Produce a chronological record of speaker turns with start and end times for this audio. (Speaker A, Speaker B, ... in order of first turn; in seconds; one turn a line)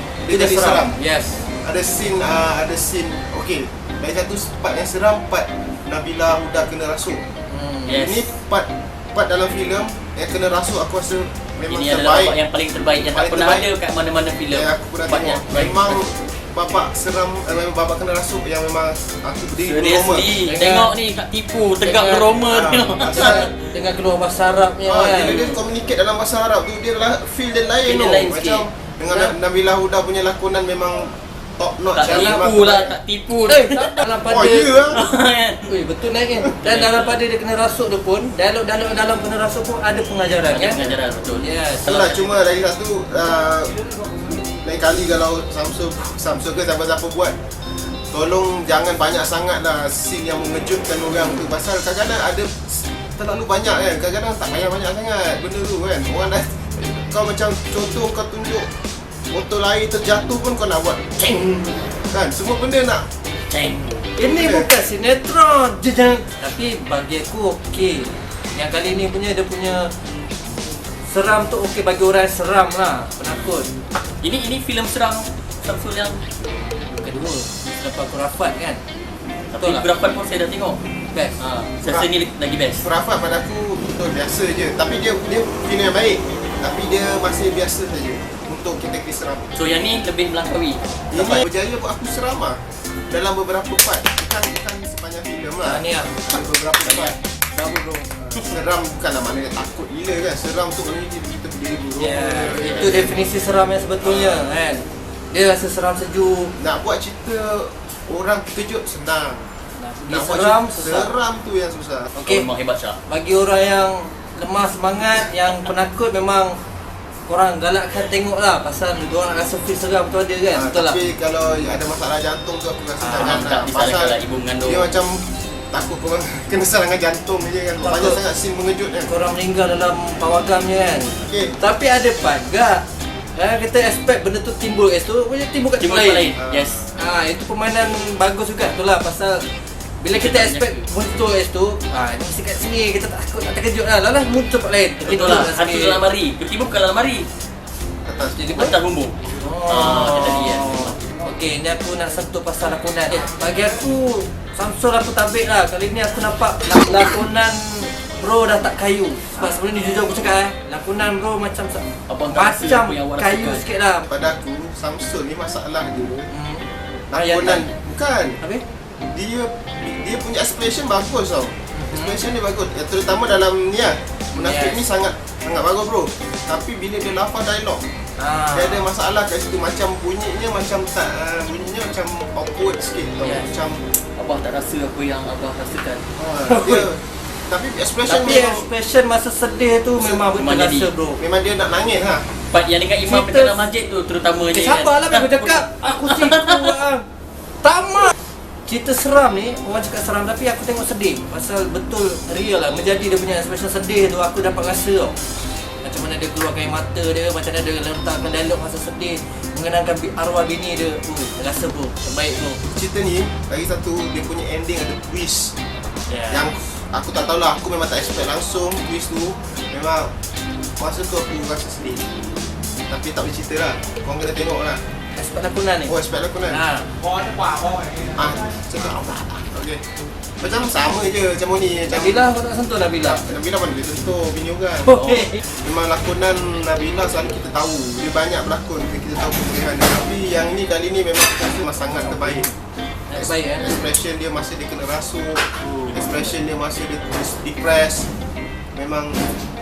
Speaker A: 0.3-0.9
Speaker B: 0.3-1.5
Speaker A: 1.6-7.2
Speaker B: 7.5-8.0
Speaker C: 7.9-8.3
Speaker A: 7.9-12.4
Speaker C: 11.7-16.0
Speaker A: 13.1-13.7
Speaker A: 14.5-20.3
Speaker C: 19.6-23.6
Speaker B: 20.4-20.9
Speaker B: 21.8-22.3
Speaker A: 22.4-23.5
Speaker B: 23.2-25.4
Speaker A: 24.9-32.9
Speaker C: 25.2-25.6
Speaker C: 27.8-28.6
Speaker B: 29.1-29.3
Speaker C: 32.0-34.0
Speaker B: 32.0-32.9
Speaker B: 33.5-35.0
Speaker A: 34.3-35.1
Speaker C: 34.9-35.7
Speaker B: 35.7-40.8
Speaker C: 36.6-37.1
Speaker C: 40.5-42.4
Speaker B: 41.3-41.9
Speaker A: 41.9-47.4
Speaker A: 48.1-58.7
Speaker A: 59.3-63.0
Speaker C: 63.5-64.1
Speaker B: 64.2-69.9
Speaker A: 64.2-64.7
Speaker B: 71.1-73.7
Speaker C: 73.2-73.5
Speaker C: 74.1-76.2
Speaker B: 77.0-78.8
Speaker C: 79.5-80.8
Speaker B: 79.6-79.9
Speaker C: 81.4-82.9
Speaker A: 82.8-89.5
Speaker C: 89.5-90.8
Speaker A: 91.1-92.6
Speaker A: 93.1-97.2
Speaker B: 95.6-96.2
Speaker C: 96.8-97.2
Speaker B: 97.5-98.1
Speaker A: 98.2-103.1
Speaker B: 102.0-106.5
Speaker C: 102.4-103.1
Speaker A: 104.0-104.5
Speaker A: 106.6-109.5
Speaker B: 109.8-111.1
Speaker A: 110.1-112.2
Speaker B: 112.2-112.5
Speaker C: 112.2-113.0
Speaker B: 113.1-116.6
Speaker B: 117.3-121.0
Speaker A: 120.5-129.1
Speaker B: 123.0-123.4
Speaker C: 123.1-125.0
Speaker B: 127.8-128.2
Speaker B: 129.1-132.8
Speaker A: 131.2-131.6
Speaker B: 133.4-136.3
Speaker C: 135.8-136.8
Speaker A: 136.3-136.9
Speaker B: 136.9-139.4
Speaker B: 140.0-146.0
Speaker C: 140.1-140.9
Speaker C: 145.0-147.3
Speaker A: 148.1-148.4
Speaker B: 148.4-148.8
Speaker C: 148.5-151.1
Speaker B: 149.4-164.1
Speaker C: 162.1-163.6
Speaker A: 164.1-166.3
Speaker B: 166.3-167.7
Speaker A: 167.1-168.4
Speaker A: 169.1-177.8
Speaker B: 171.7-172.2
Speaker B: 174.3-174.8
Speaker B: 178.2-178.9
Speaker A: 178.5-183.8
Speaker B: 183.2-183.5
Speaker C: 184.2-186.1
Speaker A: 186.2-188.7
Speaker B: 186.5-186.9
Speaker B: 188.1-191.2
Speaker A: 190.0-190.3
Speaker C: 190.3-190.9
Speaker A: 191.2-192.2
Speaker C: 192.5-196.7
Speaker B: 193.0-193.6
Speaker B: 194.5-197.1
Speaker B: 197.6-198.1
Speaker B: 198.7-205.2
Speaker B: 205.8-212.6
Speaker A: 212.6-215.6
Speaker B: 216.1-216.5
Speaker A: 216.3-220.1
Speaker A: 220.8-222.1
Speaker A: 222.9-224.8
Speaker B: 225.2-225.9
Speaker A: 225.9-226.6
Speaker B: 226.5-226.9
Speaker A: 228.1-229.8
Speaker A: 230.4-232.3
Speaker B: 231.9-233.2
Speaker A: 233.0-235.1
Speaker B: 234.9-235.3
Speaker A: 235.6-242.5
Speaker B: 241.9-242.5
Speaker B: 243.1-243.8
Speaker A: 243.2-248.1
Speaker A: 248.8-249.2